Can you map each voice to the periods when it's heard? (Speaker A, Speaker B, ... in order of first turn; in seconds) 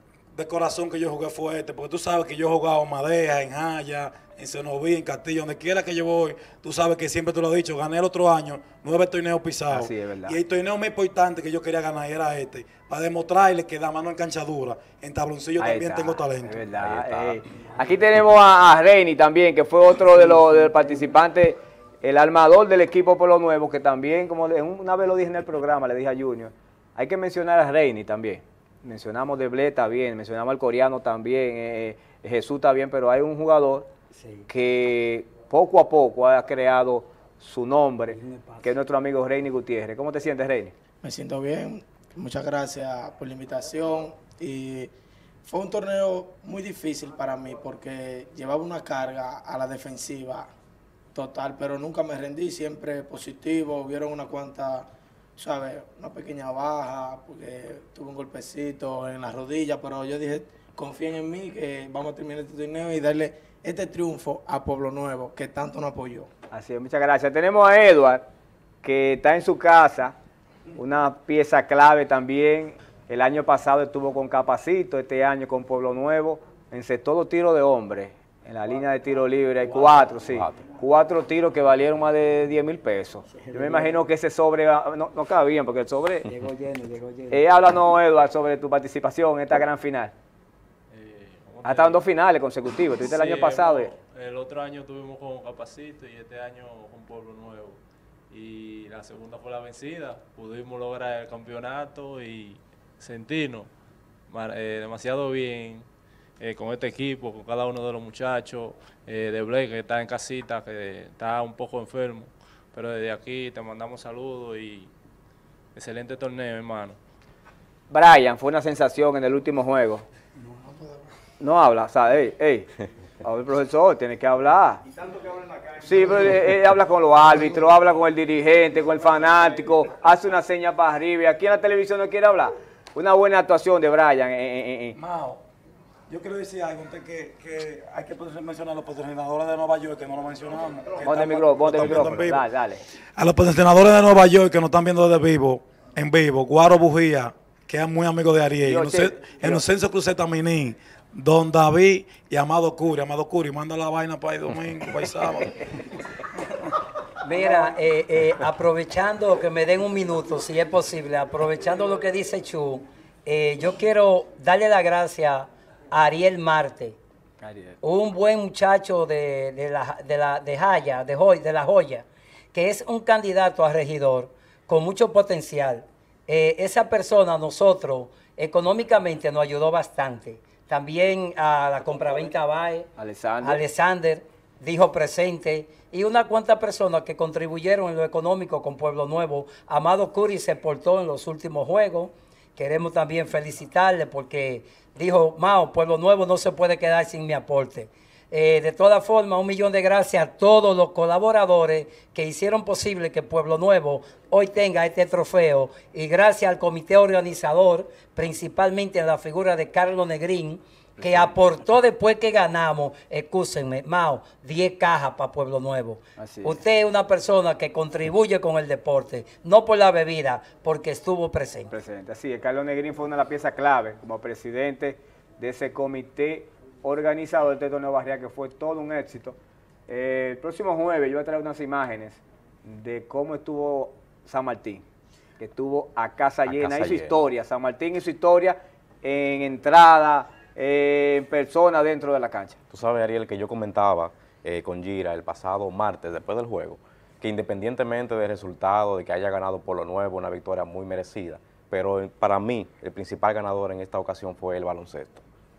Speaker A: 0.3-16.7, 134.9-135.4, 136.1-142.4, 143.2-155.7
Speaker B: 9.7-10.4, 15.6-33.9, 34.5-40.7, 66.5-68.2, 68.8-70.1, 70.8-86.3, 87.3-90.1, 91.6-93.9, 117.9-120.0, 121.4-122.7, 123.2-124.8, 125.8-134.9, 141.0-142.8, 148.6-149.6, 167.4-167.8, 183.0-183.6, 211.1-211.3, 216.2-216.6, 221.7-229.3, 229.9-234.8, 235.4-242.6
Speaker C: 16.8-17.4, 80.3-80.6, 236.4-237.2, 242.7-255.2
Speaker D: 34.1-34.5, 38.1-38.8, 83.5-83.9, 86.3-87.4, 157.2-167.0, 167.8-221.7
Speaker E: 41.0-44.9, 45.4-50.5, 51.1-66.3, 120.7-121.0
Speaker F: 90.9-92.0, 93.0-97.8, 98.3-103.7, 104.3-105.9, 106.4-114.9, 115.7-117.0